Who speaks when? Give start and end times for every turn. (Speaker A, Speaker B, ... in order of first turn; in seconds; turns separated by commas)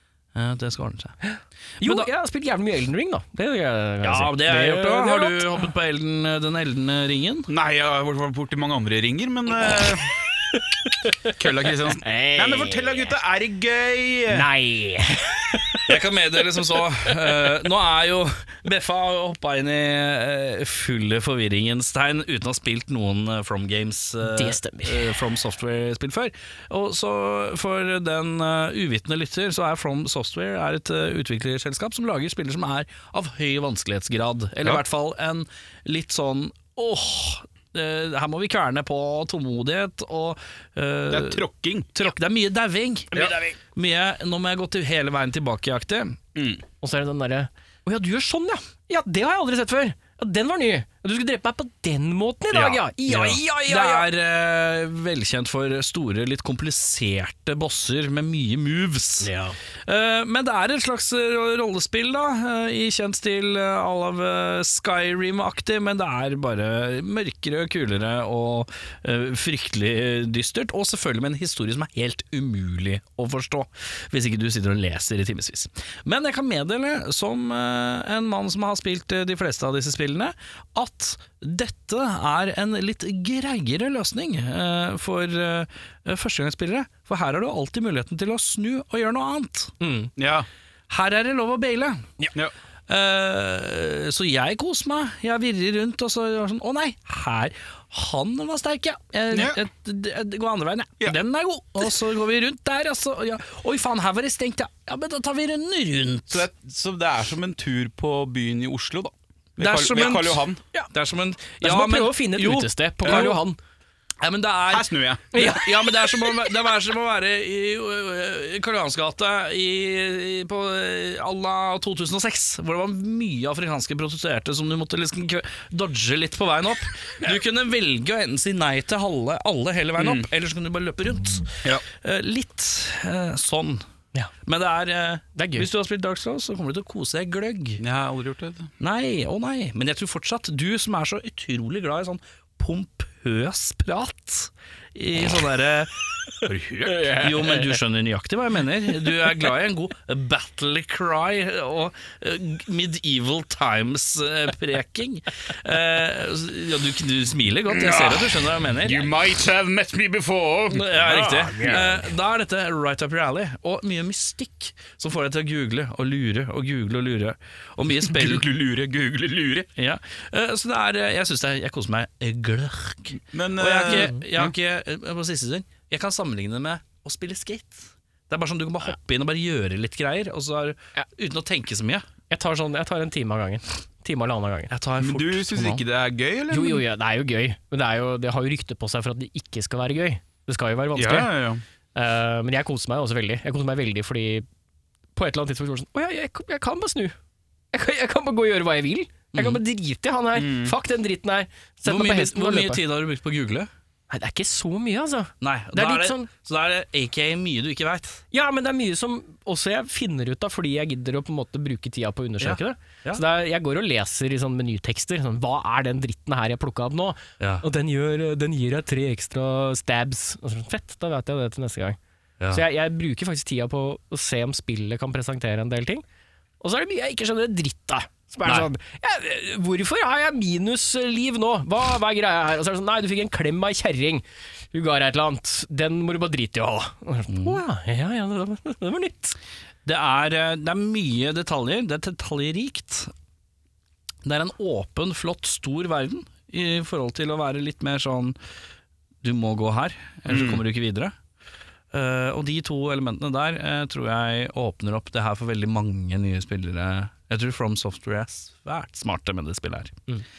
Speaker A: 0.3-1.2, Speaker B: 1.2-5.7, Speaker A: 1.8-2.1, Speaker A: 4.0-7.5, Speaker C: 7.5-10.2, Speaker C: 11.3-14.5, Speaker B: 12.0-13.1, Speaker B: 14.3-15.9, Speaker A: 15.9-46.2, Speaker B: 24.2-25.1, Speaker C: 41.1-41.9, Speaker B: 43.1-43.6, Speaker C: 46.4-46.6, Speaker B: 46.8-54.1, Speaker A: 53.1-59.3, Speaker B: 59.2-59.6, Speaker A: 59.9-89.7, Speaker B: 89.8-90.1, Speaker C: 90.2-90.5, Speaker A: 90.9-92.0, Speaker A: 92.9-106.5, Speaker C: 99.3-99.6, Speaker C: 106.3-110.6, Speaker A: 109.6-113.4, Speaker B: 111.6-113.6, Speaker A: 114.2-133.8, Speaker C: 114.7-115.2, Speaker B: 115.3-116.1, Speaker C: 130.0-130.3, Speaker A: 134.4-137.8, Speaker B: 135.4-135.7, Speaker C: 137.8-138.7, Speaker A: 138.8-145.9, Speaker C: 146.4-147.5, Speaker A: 147.1-159.1, Speaker C: 157.7-161.8, Speaker A: 160.7-168.5, Speaker B: 161.3-162.0, Speaker C: 168.0-169.7, Speaker A: 169.8-182.1, Speaker C: 173.3-174.5, Speaker B: 173.9-174.2, Speaker B: 182.3-184.7, Speaker A: 184.7-185.8, Speaker C: 185.0-186.8, Speaker B: 186.5-191.3, Speaker C: 190.9-191.6, Speaker B: 191.9-194.5, Speaker B: 195.2-197.1, Speaker B: 197.7-202.8, Speaker A: 199.3-199.6, Speaker C: 200.3-200.8, Speaker A: 201.8-203.7, Speaker B: 204.1-206.3, Speaker A: 205.4-208.2, Speaker B: 208.3-222.0, Speaker A: 212.4-213.2, Speaker B: 222.5-226.0, Speaker B: 226.6-239.4, Speaker A: 237.3-237.6, Speaker A: 239.8-243.1, Speaker A: 244.2-248.4, Speaker A: 249.2-251.1, Speaker C: 250.3-250.6, Speaker A: 251.9-260.0